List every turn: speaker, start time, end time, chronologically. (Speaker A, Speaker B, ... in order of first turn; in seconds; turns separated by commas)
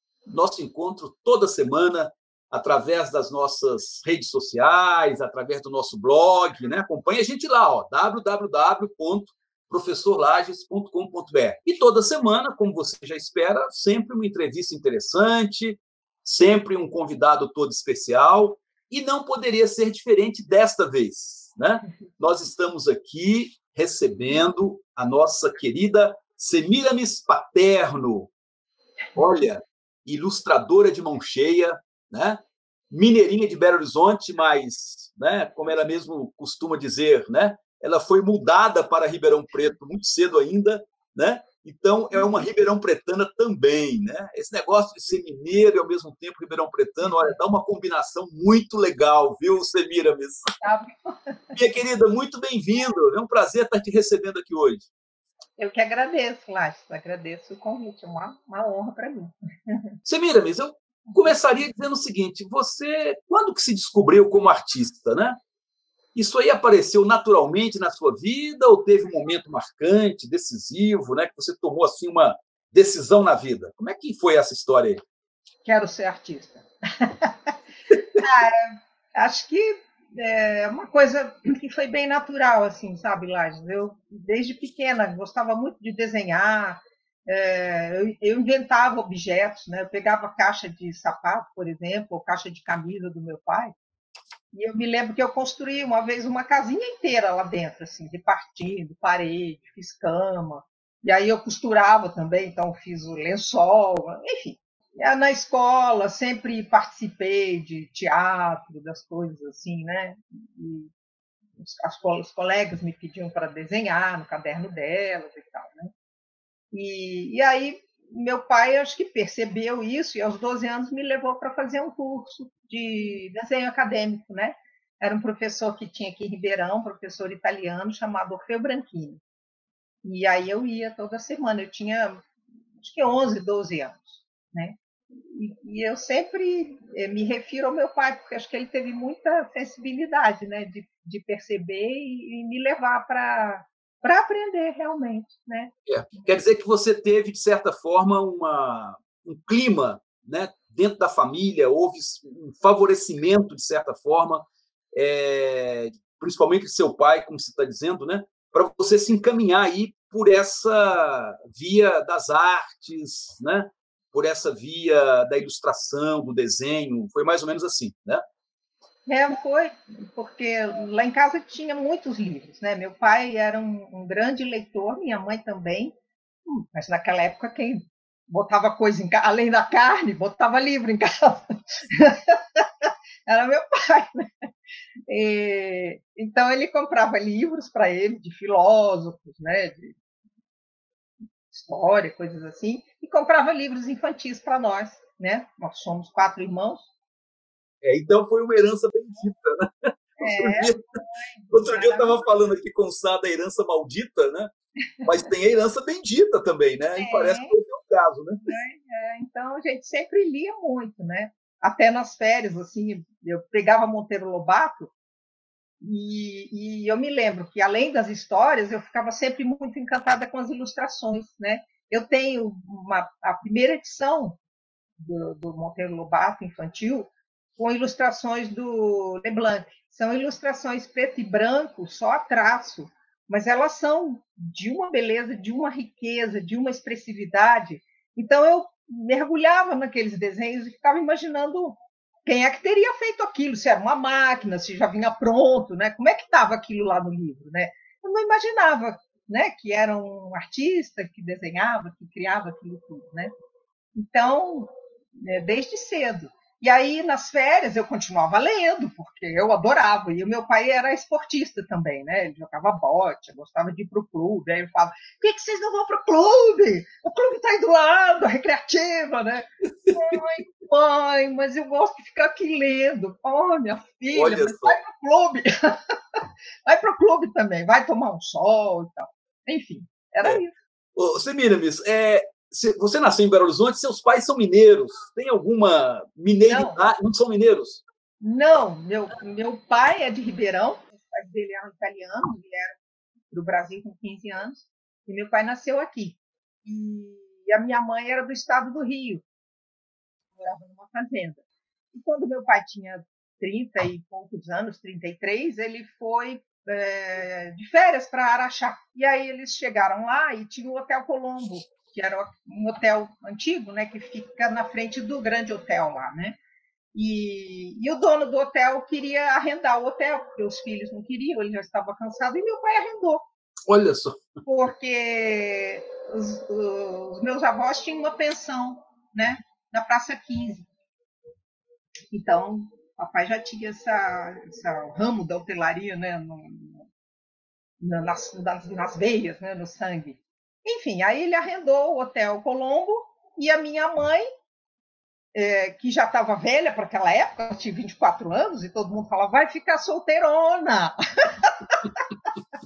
Speaker A: 0.3-28.3, Speaker A: 29.2-50.5, Speaker B: 42.1-42.5, Speaker B: 47.0-47.4, Speaker B: 50.6-51.4, Speaker A: 51.5-54.9, Speaker B: 55.6-59.8, Speaker A: 60.0-65.4, Speaker B: 61.1-61.4, Speaker A: 66.2-75.0, Speaker B: 75.6-77.5, Speaker B: 78.2-93.7, Speaker B: 94.5-110.9, Speaker B: 111.6-115.9, Speaker B: 116.7-129.2, Speaker B: 130.0-132.3, Speaker B: 132.8-146.3, Speaker A: 145.9-168.2, Speaker B: 169.1-184.3, Speaker B: 185.1-189.9, Speaker B: 191.5-196.9, Speaker A: 197.8-199.7, Speaker B: 200.2-202.3, Speaker A: 200.2-200.8, Speaker A: 201.5-204.5, Speaker A: 205.0-208.4, Speaker B: 207.0-207.5, Speaker B: 208.5-214.9, Speaker B: 215.8-224.4, Speaker B: 225.0-253.3, Speaker B: 254.0-275.8, Speaker A: 269.8-270.2, Speaker A: 274.1-274.8, Speaker B: 276.7-280.5, Speaker A: 281.0-287.8, Speaker B: 286.5-286.8, Speaker B: 288.2-292.8, Speaker B: 293.3-299.2, Speaker B: 300.4-301.4, Speaker B: 301.9-316.4, Speaker B: 316.9-323.3, Speaker A: 323.7-324.2, Speaker B: 324.5-330.7, Speaker B: 332.1-336.9, Speaker B: 337.8-344.2, Speaker B: 345.3-352.0